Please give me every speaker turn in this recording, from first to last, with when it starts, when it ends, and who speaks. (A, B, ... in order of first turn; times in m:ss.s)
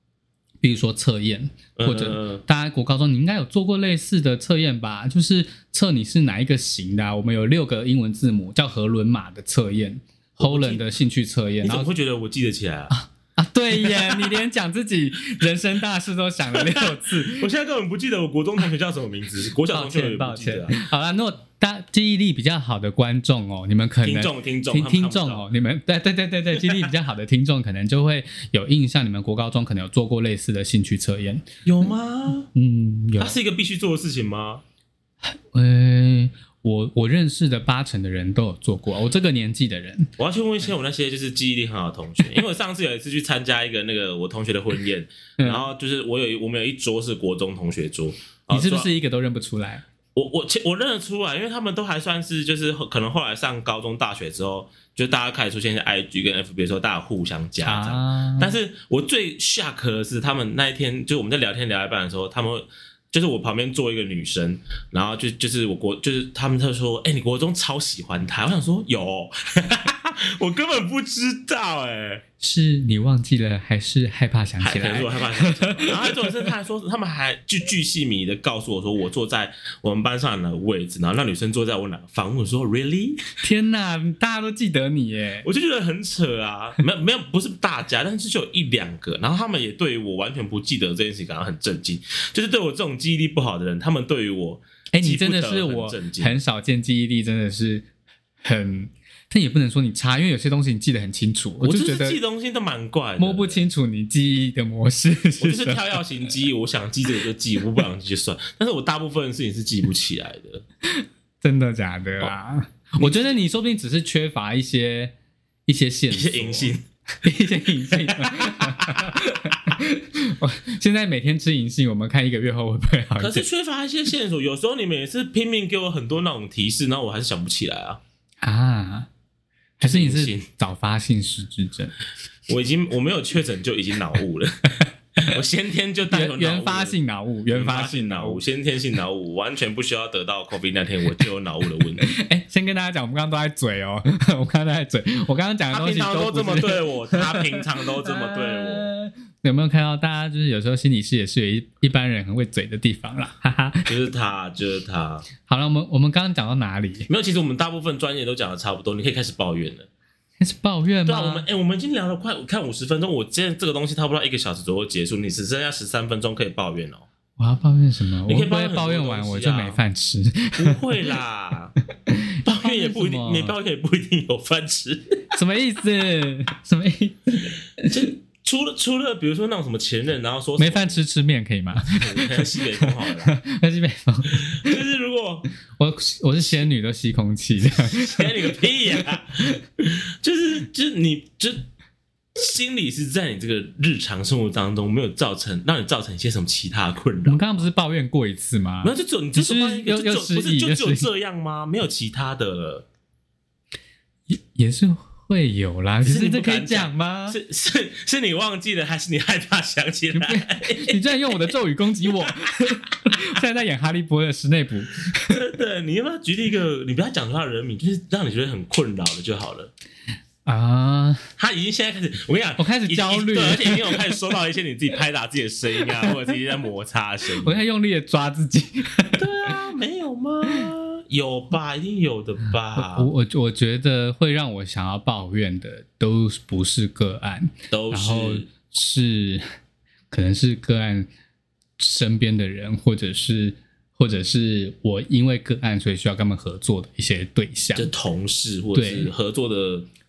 0:00.6-0:11.9 A
0:01.8-0:02.4 B
0:10.4-0:10.8 B
0:11.6-0:12.9 B
0:12.9-0:17.5 A
0:13.8-0:14.4 B
0:16.5-0:20.7 B
0:19.7-0:31.4 A
0:24.0-0:25.4 B
0:26.6-0:26.9 B
0:31.6-0:32.5 B
0:32.5-0:33.4 A
0:33.2-0:34.6 B
0:35.2-0:40.1 A
0:40.2-0:48.9 B
0:45.4-0:45.7 A
0:48.5-0:49.8 A
0:50.1-1:12.2 B
0:57.6-0:58.6 A
1:12.4-1:16.5 A
1:14.6-1:23.2 B
1:23.4-1:25.5 A
1:25.4-1:36.4 B
1:34.9-1:37.9 A
1:38.4-1:42.2 A
1:41.6-1:43.6 B
1:43.2-1:45.8 A
1:45.4-1:50.6 B
1:50.9-1:55.1 A
1:55.7-2:03.4 A
1:56.1-1:56.8 B
1:57.9-1:59.2 B
2:03.2-2:08.0 B
2:08.4-2:09.1 A
2:09.8-2:12.0 A
2:09.8-2:10.4 B
2:12.5-2:17.0 B
2:16.1-2:18.4 A
2:17.5-2:22.1 B
2:22.0-2:33.9 A
2:25.7-2:28.9 B
2:33.9-2:35.3 B
2:35.4-2:37.1 A
2:37.1-2:39.9 B
2:40.4-2:41.4 A
2:41.0-2:47.0 B
2:47.4-2:50.8 A
2:48.2-2:49.8 B
2:50.6-2:51.7 B
2:52.1-2:53.5 A
2:52.4-2:55.2 B
2:55.3-2:57.9 A
2:57.8-3:01.0 B
3:00.6-3:04.8 A
3:01.8-3:03.3 B
3:04.5-3:05.5 B
3:05.8-3:08.5 A
3:07.8-3:11.6 B
3:12.4-3:17.6 B
3:17.2-3:21.1 A
3:18.8-3:22.9 B
3:24.3-3:27.4 A
3:26.0-3:31.0 B
3:30.1-3:35.4 A
3:35.3-3:39.7 B
3:40.4-3:41.3 A
3:41.4-3:47.6 B
3:42.6-3:44.0 A
3:47.4-3:49.5 A
3:49.2-3:53.1 B
3:52.8-3:59.4 A
3:57.7-3:58.5 B
4:00.1-4:01.1 A
4:01.8-4:07.9 A
4:07.7-4:09.9 B
4:08.7-4:09.1 A